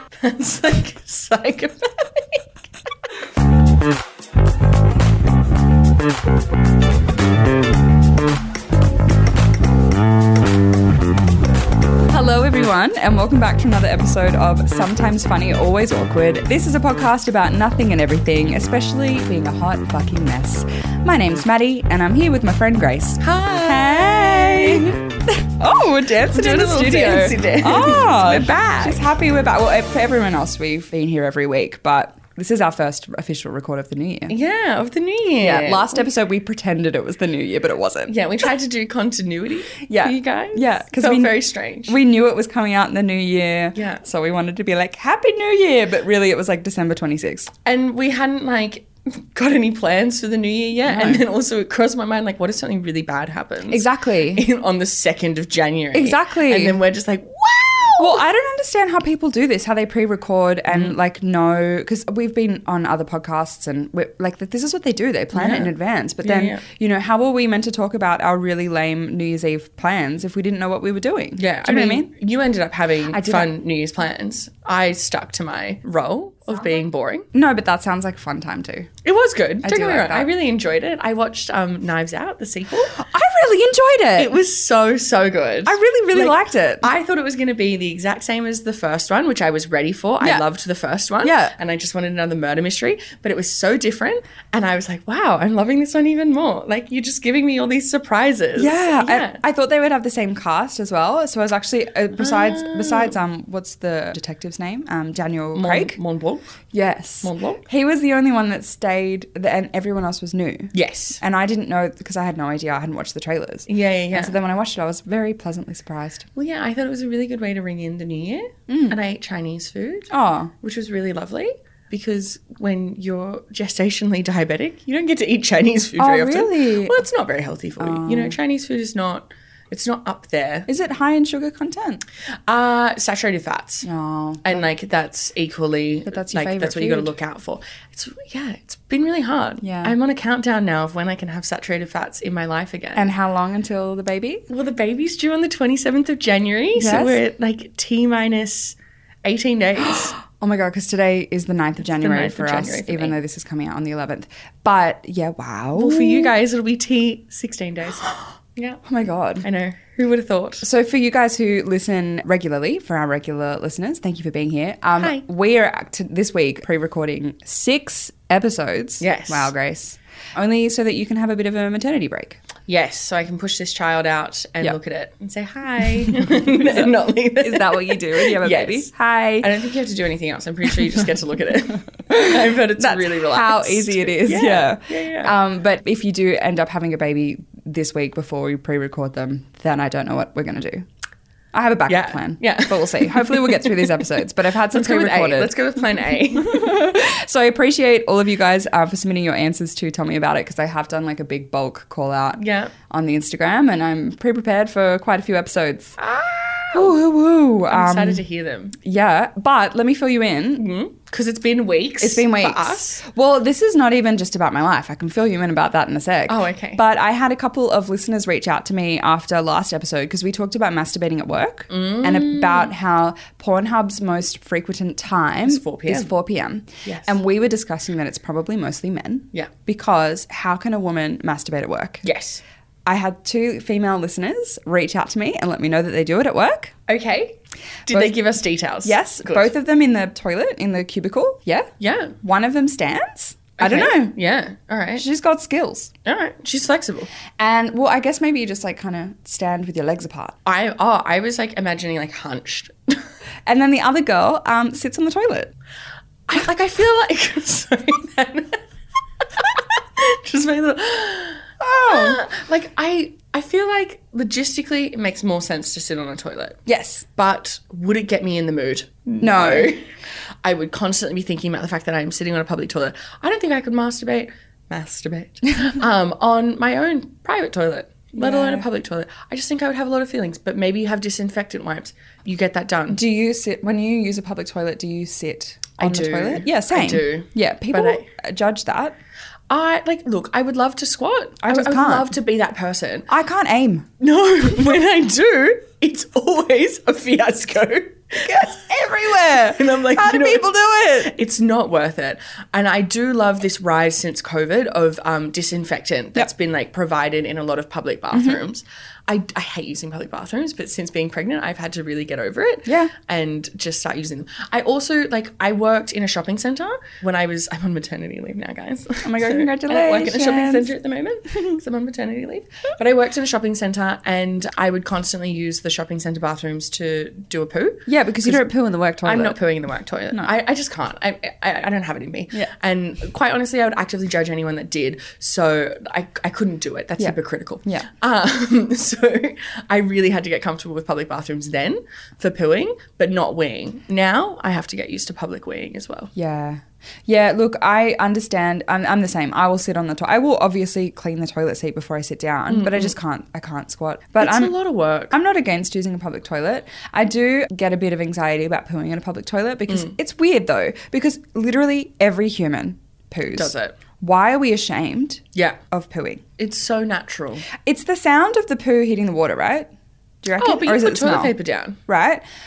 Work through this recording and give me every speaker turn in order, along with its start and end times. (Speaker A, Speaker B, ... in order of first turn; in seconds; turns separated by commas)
Speaker A: 0.2-2.4, Speaker B: 12.1-34.3, Speaker A: 23.2-25.0, Speaker A: 26.2-29.0, Speaker A: 34.3-36.1, Speaker B: 35.4-38.1, Speaker A: 38.1-42.0, Speaker B: 39.9-41.3, Speaker B: 41.9-47.5, Speaker A: 43.8-44.0, Speaker A: 47.6-58.2, Speaker B: 50.9-51.2, Speaker B: 53.7-54.5, Speaker B: 55.9-56.8, Speaker B: 58.0-72.1, Speaker A: 65.3-66.6, Speaker A: 71.4-77.3, Speaker B: 73.1-73.5, Speaker B: 77.3-78.9, Speaker A: 79.0-82.9, Speaker B: 79.6-80.3, Speaker B: 82.9-84.3, Speaker A: 84.2-99.4, Speaker B: 85.7-86.9, Speaker B: 91.2-91.5, Speaker B: 98.5-106.0, Speaker A: 102.2-103.1, Speaker A: 105.5-106.5, Speaker B: 106.7-116.3, Speaker A: 107.2-107.6, Speaker A: 110.7-111.2, Speaker A: 113.7-114.3, Speaker A: 116.3-120.1, Speaker B: 118.7-119.0, Speaker B: 120.1-120.5, Speaker A: 120.6-130.7, Speaker B: 126.0-127.0, Speaker B: 127.8-128.4, Speaker B: 130.7-132.0, Speaker A: 132.5-133.9, Speaker B: 133.8-134.6, Speaker A: 134.4-143.1, Speaker B: 136.1-137.1, Speaker B: 139.6-139.9, Speaker B: 142.9-144.4, Speaker A: 144.5-150.2, Speaker B: 146.8-147.2, Speaker B: 150.2-156.3, Speaker A: 151.8-153.2, Speaker A: 155.8-158.8, Speaker B: 158.8-159.4, Speaker A: 159.4-160.7, Speaker B: 160.6-172.4, Speaker A: 169.0-169.5, Speaker A: 172.7-178.9, Speaker B: 175.8-179.5, Speaker A: 179.4-185.3, Speaker B: 182.1-190.8, Speaker B: 191.5-195.5, Speaker A: 191.9-194.0, Speaker A: 194.7-196.7, Speaker B: 196.1-205.9, Speaker A: 202.4-202.7, Speaker A: 206.0-206.9, Speaker B: 206.7-208.2, Speaker A: 207.7-208.8, Speaker B: 208.8-210.7, Speaker A: 210.6-213.0, Speaker B: 212.0-232.0, Speaker A: 216.3-216.8, Speaker A: 221.7-222.7, Speaker A: 225.4-226.1, Speaker A: 226.8-227.2, Speaker A: 232.0-232.4, Speaker B: 232.8-236.7, Speaker A: 236.9-239.5, Speaker B: 237.9-238.2, Speaker B: 238.8-241.7, Speaker A: 241.8-242.1, Speaker B: 242.2-244.1, Speaker A: 243.6-245.0, Speaker B: 245.0-245.9, Speaker A: 246.0-247.1, Speaker B: 247.4-250.4, Speaker A: 250.4-253.0, Speaker B: 253.4-255.5, Speaker A: 256.3-258.6, Speaker A: 259.2-266.6, Speaker B: 261.6-262.2, Speaker B: 266.6-267.1, Speaker A: 267.1-269.9, Speaker B: 269.2-269.7, Speaker A: 270.4-283.0, Speaker B: 278.2-278.6, Speaker B: 282.9-288.9, Speaker A: 285.8-288.1, Speaker A: 289.5-293.1, Speaker B: 291.4-292.1, Speaker B: 293.1-293.9, Speaker A: 294.0-298.7, Speaker B: 298.2-301.1, Speaker A: 299.2-328.4, Speaker B: 308.1-308.4, Speaker B: 312.6-312.9, Speaker B: 319.0-320.7, Speaker B: 327.9-329.4, Speaker A: 329.0-346.1, Speaker B: 337.0-337.9, Speaker B: 346.1-354.5, Speaker A: 352.5-352.9, Speaker A: 354.2-355.1, Speaker B: 355.1-366.2, Speaker A: 359.7-359.9, Speaker A: 363.3-363.7, Speaker A: 366.4-367.5, Speaker B: 367.6-369.7, Speaker B: 370.2-371.3, Speaker A: 370.4-371.8, Speaker B: 371.9-372.2